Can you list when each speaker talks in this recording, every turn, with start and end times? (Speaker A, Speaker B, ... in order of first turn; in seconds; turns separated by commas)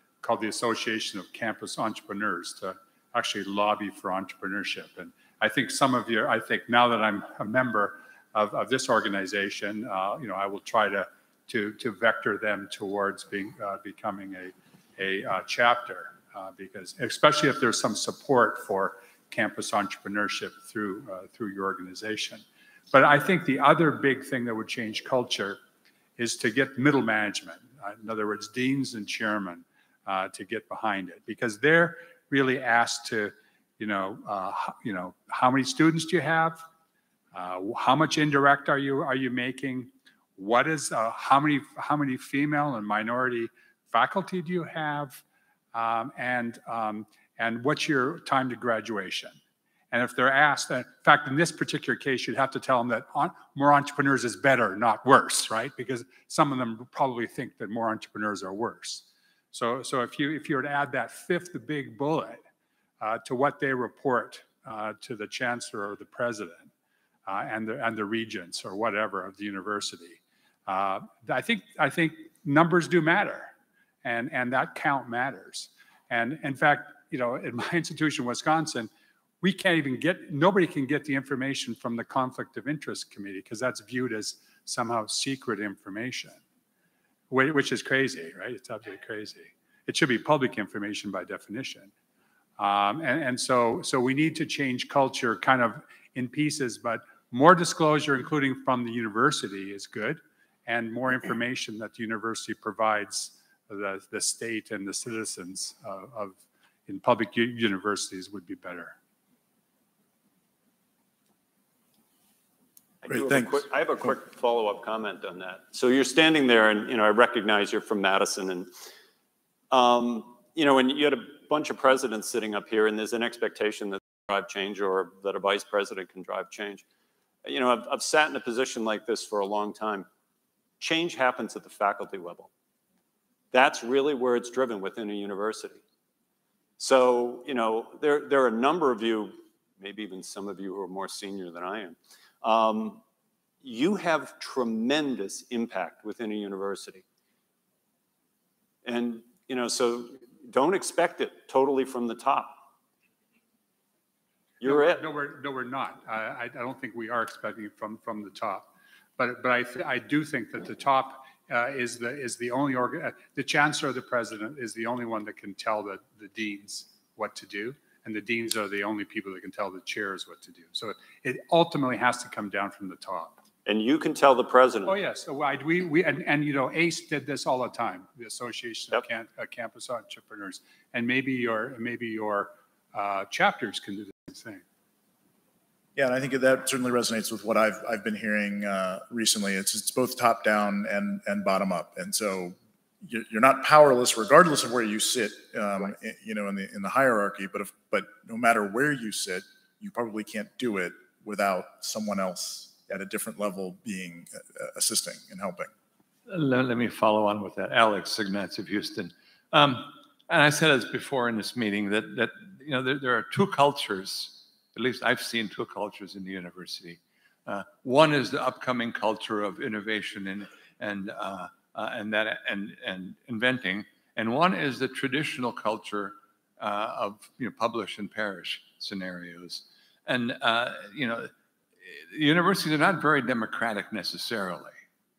Speaker A: 0.2-25.6, Speaker A: 26.2-36.6, Speaker A: 37.3-45.2, Speaker A: 45.7-49.4, Speaker A: 49.9-62.4, Speaker A: 63.0-66.7, Speaker A: 67.3-73.5, Speaker A: 74.0-78.9, Speaker A: 79.4-86.4, Speaker A: 87.3-91.9, Speaker A: 92.6-109.0, Speaker B: 113.0-118.7, Speaker C: 113.1-114.1, Speaker B: 119.7-126.8, Speaker B: 127.5-130.1, Speaker B: 130.8-132.5, Speaker B: 133.5-135.8, Speaker B: 136.8-143.0, Speaker B: 143.6-147.0, Speaker B: 148.8-152.6, Speaker B: 154.6-155.0, Speaker A: 154.6-173.4, Speaker B: 173.7-175.0, Speaker A: 174.8-184.6, Speaker C: 185.9-205.7, Speaker D: 206.3-231.3, Speaker D: 231.8-234.8